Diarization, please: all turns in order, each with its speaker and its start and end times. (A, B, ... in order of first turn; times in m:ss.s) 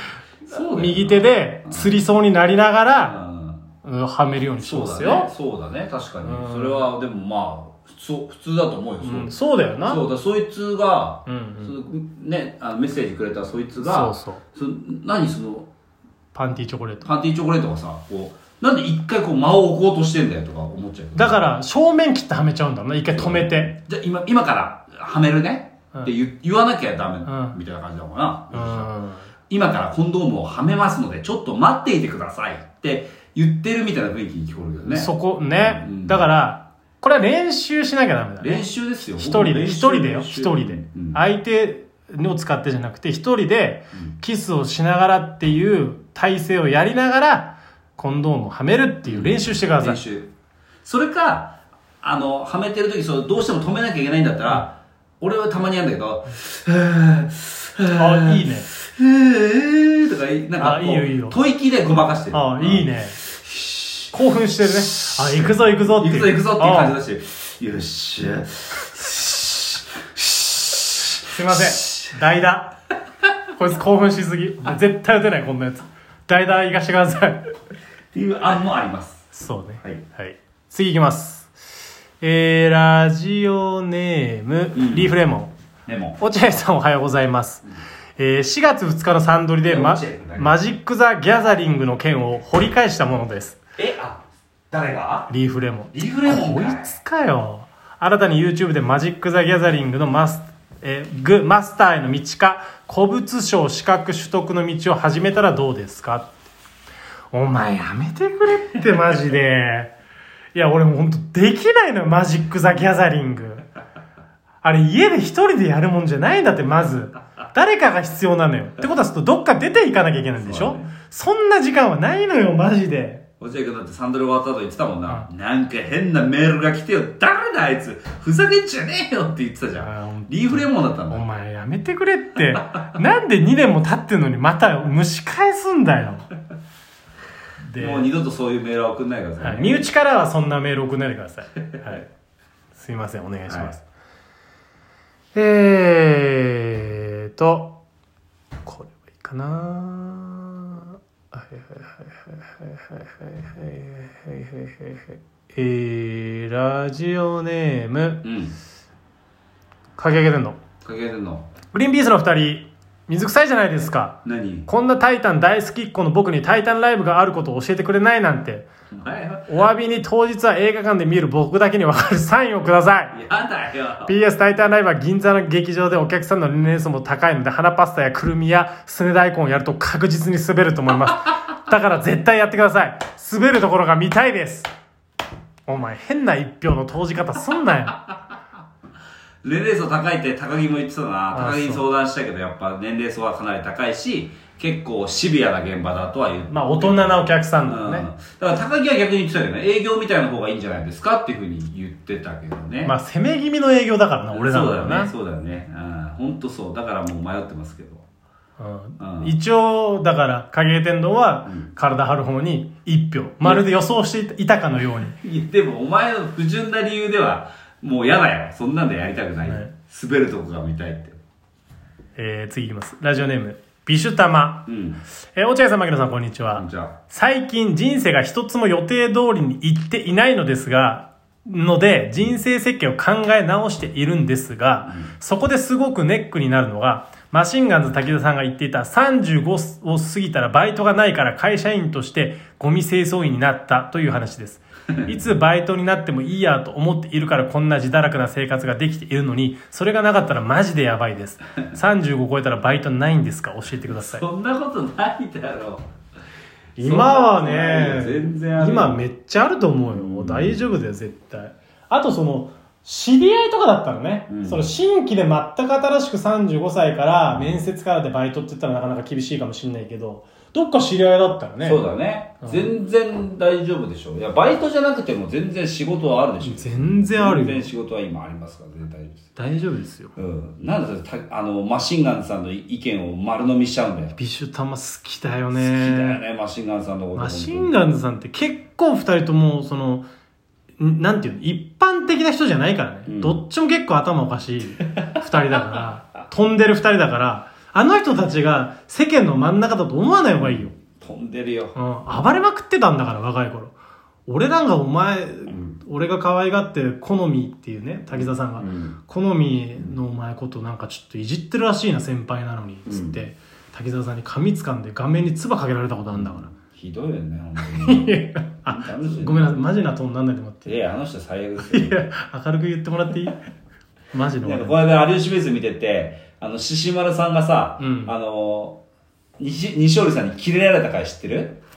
0:00.4-0:02.0 A
0:00.5-0:03.2 B
0:03.0-0:03.6 A
0:03.8-0:05.3 B
0:04.6-0:09.3 A
0:06.2-0:06.8 B
0:09.0-0:10.0 B
0:09.8-0:15.7 A
0:11.2-0:11.7 B
0:13.8-0:14.4 B
0:16.3-0:17.1 B
0:17.0-0:21.4 A
0:21.1-0:23.7 B
0:23.1-0:28.9 A
0:27.2-0:27.6 B
0:28.5-0:29.3 B
0:29.5-0:36.2 A
0:34.8-0:50.0 B
0:38.4-0:41.2 A
0:49.0-0:50.3 A
0:50.8-1:04.0 A
0:57.9-0:58.7 B
1:00.6-1:01.4 B
1:02.3-1:03.2 B
1:04.1-1:06.9 B
1:04.6-1:12.0 A
1:11.2-1:12.7 B
1:13.5-1:17.5 B
1:18.1-1:19.2 A
1:19.3-1:21.5 B
1:22.2-1:25.5 B
1:24.7-1:25.2 A
1:25.8-1:26.2 A
1:26.2-1:27.7 B
1:28.2-1:33.6 B
1:29.6-1:30.6 A
1:33.8-1:35.3 A
1:35.3-1:46.3 B
1:35.9-1:36.9 A
1:47.3-1:49.9 B
1:50.5-1:53.7 B
1:54.6-2:03.2 B
2:00.4-2:00.8 A
2:03.4-2:11.2 A
2:09.8-2:16.3 B
2:17.6-2:18.1 B
2:17.8-2:19.9 A
2:19.4-2:22.1 B
2:22.7-2:23.8 B
2:25.3-2:27.8 B
2:28.6-2:38.2 B
2:38.2-2:38.6 A
2:40.0-2:40.6 B
2:40.8-2:41.5 A
2:41.7-2:48.7 B
2:44.2-2:44.7 A
2:48.9-2:49.6 A
2:49.5-2:53.2 B
2:53.1-2:54.1 A
2:54.0-3:04.7 B
3:05.7-3:08.0 B
3:09.4-3:22.9 A
3:11.3-3:11.8 B
3:16.5-3:18.1 B
3:22.8-3:25.1 B
3:24.3-3:28.0 A
3:28.6-3:35.2 B
3:29.0-3:29.3 A
3:35.2-3:41.2 A
3:39.4-3:39.7 B
3:42.2-3:44.7 B
3:44.6-3:45.0 A
3:45.3-4:14.2 B
3:46.5-3:47.0 A
4:13.9-4:15.8 A
4:16.8-4:31.8 B
4:16.8-4:19.0 A
4:19.9-4:20.6 A
4:24.3-4:24.6 A
4:27.3-4:27.6 A
4:31.6-4:39.2 A
4:32.4-4:32.7 B
4:36.4-4:37.7 B
4:39.4-4:40.1 B
4:40.2-4:44.2 A
4:44.2-4:46.2 B
4:45.5-4:47.8 A
4:47.1-4:50.1 B
4:50.8-5:00.7 B
4:53.1-4:53.4 A
5:00.4-5:01.7 A
5:01.7-5:03.7 B
5:04.2-5:16.5 B
5:08.1-5:09.0 A
5:12.8-5:13.2 A
5:16.2-5:19.5 A
5:17.7-5:20.7 B
5:20.6-5:22.1 A
5:21.6-5:23.4 B
5:24.1-5:24.8 B
5:24.4-5:28.8 A
5:27.8-5:28.1 B
5:29.4-5:31.6 A